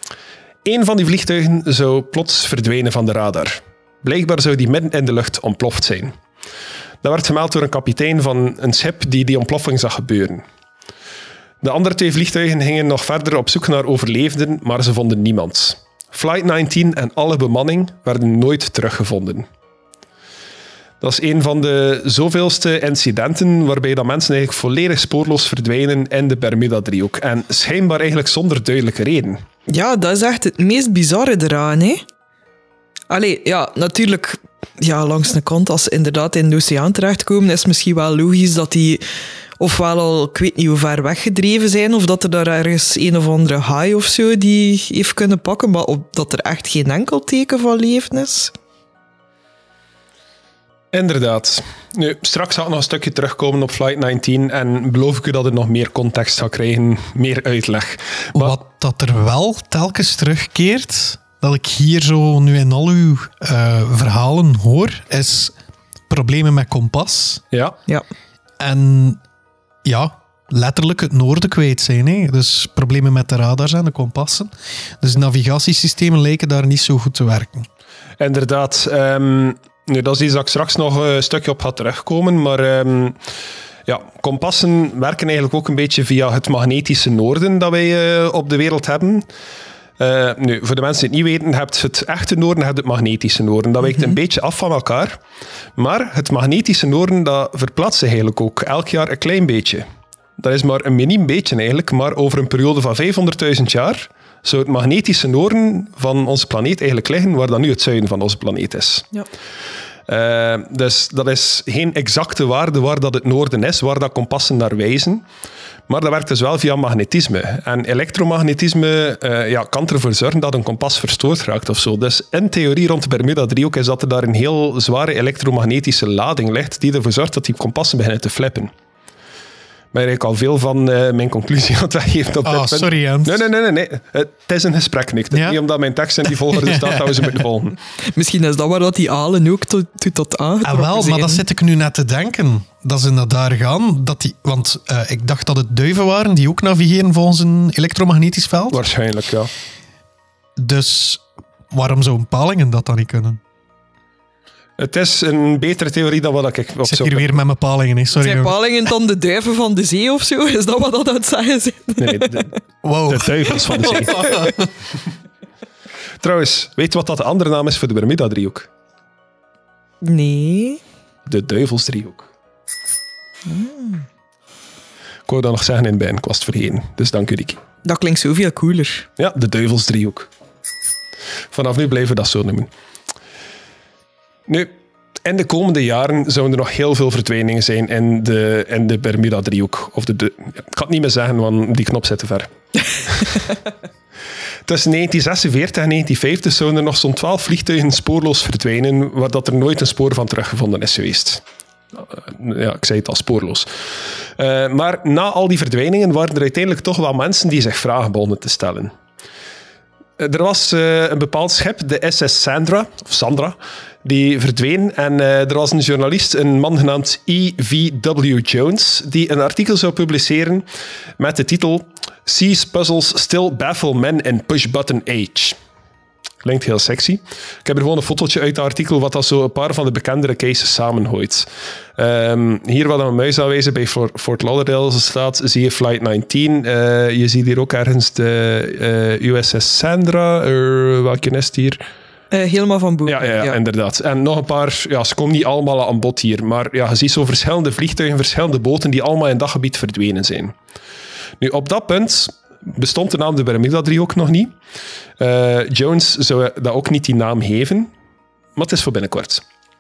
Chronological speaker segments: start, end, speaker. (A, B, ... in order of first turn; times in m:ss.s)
0:00.6-0:06.1 A
0:07.0-0:10.4 A
0:11.6-0:19.5 A
0:21.0-0:29.4 A
0:29.7-0:32.0 B
0:33.1-0:39.0 B
0:39.6-0:48.5 B
0:50.9-0:58.6 A
0:58.4-1:05.5 C
1:06.1-1:07.4 C
1:07.5-1:07.8 A
1:08.6-1:09.2 C
1:09.8-1:17.7 C
1:18.2-1:23.2 A
1:23.9-1:29.3 A
1:30.0-1:35.2 A
1:35.8-1:39.8 A
1:40.4-1:49.2 A
1:50.1-1:55.2 A
1:55.9-2:08.7 A
2:09.9-2:17.8 A
2:12.4-2:13.5 C
2:15.3-2:15.6 C
2:16.3-2:17.4 C
2:18.1-2:21.4 B
2:20.6-2:28.8 C
2:28.7-2:29.5 A
2:30.6-2:33.4 C
2:34.8-2:37.4 A
2:36.9-2:38.5 C
2:38.2-2:42.6 B
2:42.0-2:42.5 A
2:42.8-2:44.7 C
2:43.1-2:44.3 A
2:43.5-2:44.4 B
2:46.2-2:48.7 A
2:50.0-2:50.8 B
2:51.3-2:52.3 A
2:53.5-2:54.0 B
2:55.3-2:57.6 A
2:57.8-2:59.1 B
2:59.2-3:00.3 A
3:01.5-3:02.7 A
3:04.5-3:04.7 A
3:05.2-3:12.5 A
3:13.0-3:13.4 A
3:14.7-3:21.4 A
3:22.0-3:23.7 A
3:24.2-3:28.9 A
3:30.2-3:40.7 A
3:41.2-3:45.6 A
3:46.4-4:01.8 A
4:02.3-4:03.6 B
4:03.1-4:10.5 A
4:11.4-4:14.5 A
4:15.2-4:17.9 A
4:18.6-4:19.4 A